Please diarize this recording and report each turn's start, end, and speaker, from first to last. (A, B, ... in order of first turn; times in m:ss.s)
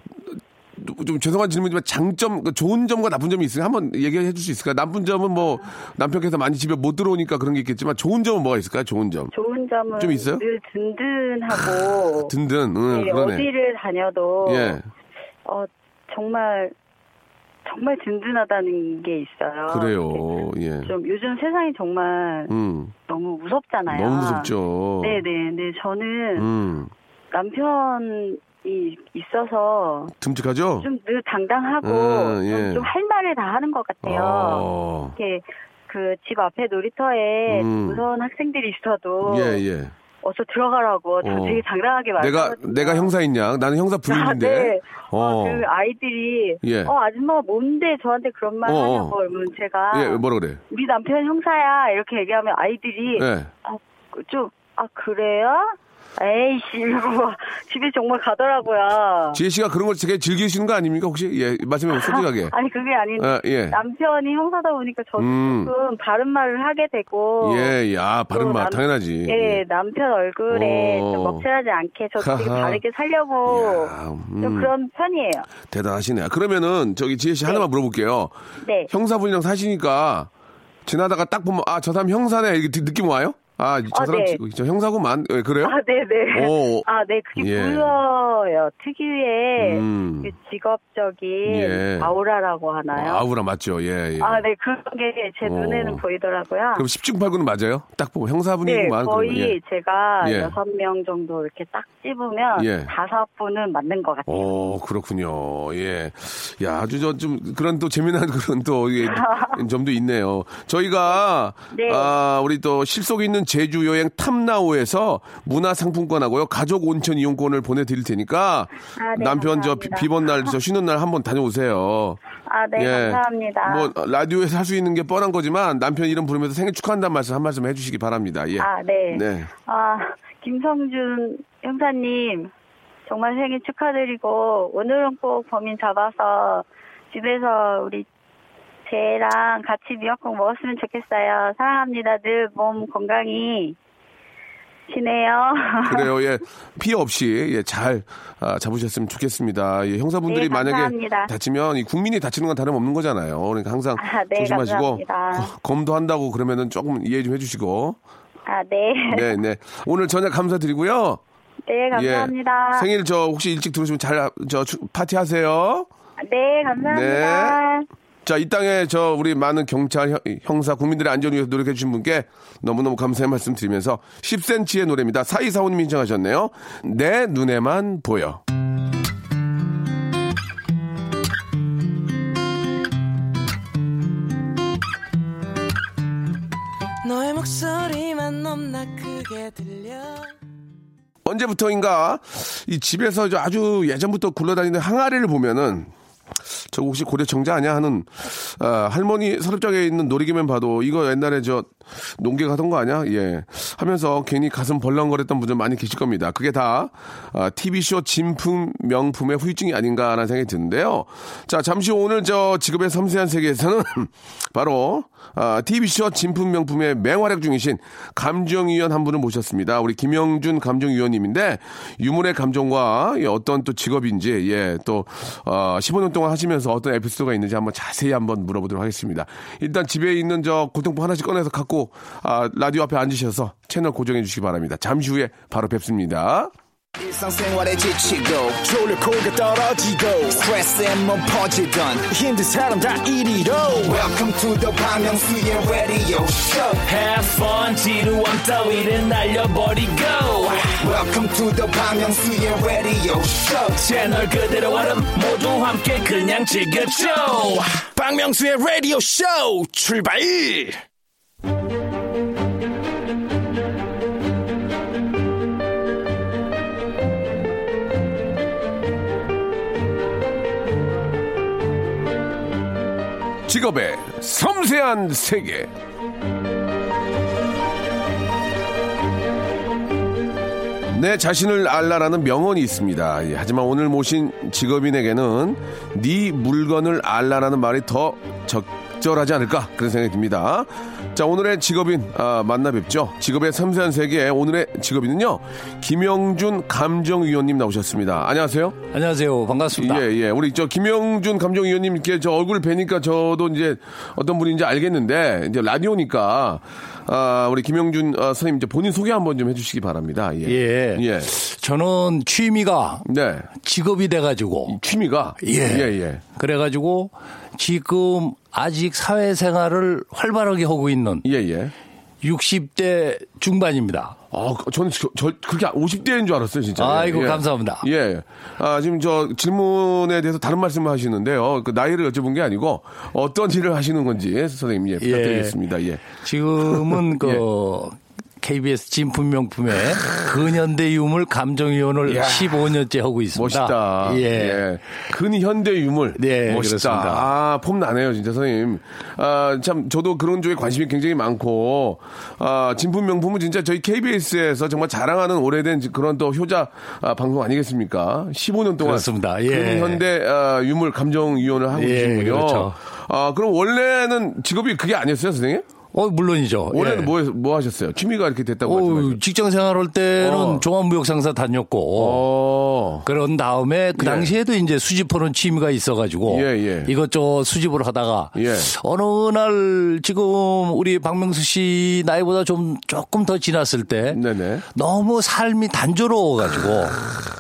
0:00.3-0:09.3 A
0:09.3-0:12.3 B
0:10.0-0:10.4 A
0:12.3-0:13.5 A
0:12.9-0:14.8 B
0:14.4-0:14.9 A
0:15.4-0:16.7 B
0:17.7-0:20.2 B
0:19.7-0:20.9 A
0:20.8-0:22.5 B
0:22.5-0:22.9 A
0:23.1-0:24.5 B
0:23.9-0:25.2 A
0:25.0-0:26.5 B
0:26.4-0:26.9 A
0:27.3-0:30.1 B
0:30.2-0:30.9 A
0:30.8-0:34.7 B
0:31.8-0:32.9 A
0:34.0-0:35.2 A
0:35.2-0:39.6 B
0:37.5-0:38.0 A
0:39.2-0:39.9 A
0:40.2-0:43.1 B
0:41.2-0:41.6 A
0:42.2-0:45.7 A
0:44.1-0:59.4 B
0:46.6-0:46.9 A
0:48.6-0:49.2 A
0:49.9-0:50.6 A
0:53.1-0:53.5 A
0:59.3-1:02.6 A
1:02.0-1:07.7 B
1:03.2-1:03.8 A
1:05.2-1:05.7 A
1:07.4-1:09.6 A
1:08.3-1:15.5 B
1:10.5-1:11.4 A
1:12.2-1:12.8 A
1:13.4-1:14.7 A
1:15.7-1:18.3 A
1:18.6-1:18.9 B
1:18.9-1:20.3 A
1:20.9-1:25.8 A
1:23.9-1:24.4 B
1:25.6-1:33.2 B
1:26.3-1:26.9 A
1:27.4-1:28.0 A
1:29.6-1:30.3 A
1:31.4-1:32.1 A
1:32.9-1:34.4 A
1:34.2-1:36.8 B
1:35.4-1:36.0 A
1:36.8-1:39.6 A
1:38.6-1:44.5 B
1:40.2-1:40.6 A
1:42.6-1:42.9 A
1:44.3-2:02.2 A
1:49.0-1:49.6 B
1:51.7-1:52.1 B
1:59.0-2:00.5 B
2:02.5-2:03.9 B
2:02.8-2:09.5 A
2:08.6-2:12.5 B
2:13.1-2:18.1 B
2:18.9-2:23.8 B
2:24.9-2:26.1 B
2:25.8-2:38.0 A
2:30.3-2:31.3 B
2:34.0-2:35.5 B
2:38.5-2:39.3 B
2:39.1-2:41.2 A
2:41.7-2:42.9 B
2:41.9-2:45.9 A
2:46.2-2:47.9 B
2:46.8-2:47.6 A
2:48.2-2:58.4 A
3:07.0-3:10.4 C
3:11.2-3:15.9 A
3:16.7-3:56.5 A
3:57.0-4:06.8 D
3:57.3-3:57.8 E
3:58.6-3:59.4 E
4:00.3-4:03.4 E
4:06.8-4:10.7 F
4:10.8-4:13.8 D
4:13.8-4:17.8 F
4:18.0-4:20.8 E
4:33.5-4:35.7 A
4:40.9-4:58.8 A
4:58.9-5:00.1 G
4:59.7-5:11.3 A
5:10.4-5:13.1 G
5:13.0-5:13.5 A
5:13.6-5:14.8 G
5:14.7-5:16.2 A
5:15.4-5:21.3 G
5:21.2-5:21.7 A
5:22.2-5:24.2 G
5:24.3-5:36.0 A
5:26.8-5:27.8 G
5:35.0-5:35.6 G
5:36.2-5:44.7 G
5:36.6-5:37.4 A
5:42.1-5:42.7 A
5:43.4-6:05.7 A
5:46.2-5:47.3 G
5:58.8-6:00.0 G
6:01.7-6:02.8 G
6:05.9-6:07.1 G
6:06.7-6:09.2 A
6:08.6-6:12.2 G
6:10.2-6:10.6 A
6:12.0-6:13.1 A
6:13.0-6:24.2 G
6:14.0-6:14.3 A
6:16.3-6:16.9 A
6:18.4-6:18.7 A
6:24.1-6:24.6 A
6:24.7-6:27.0 G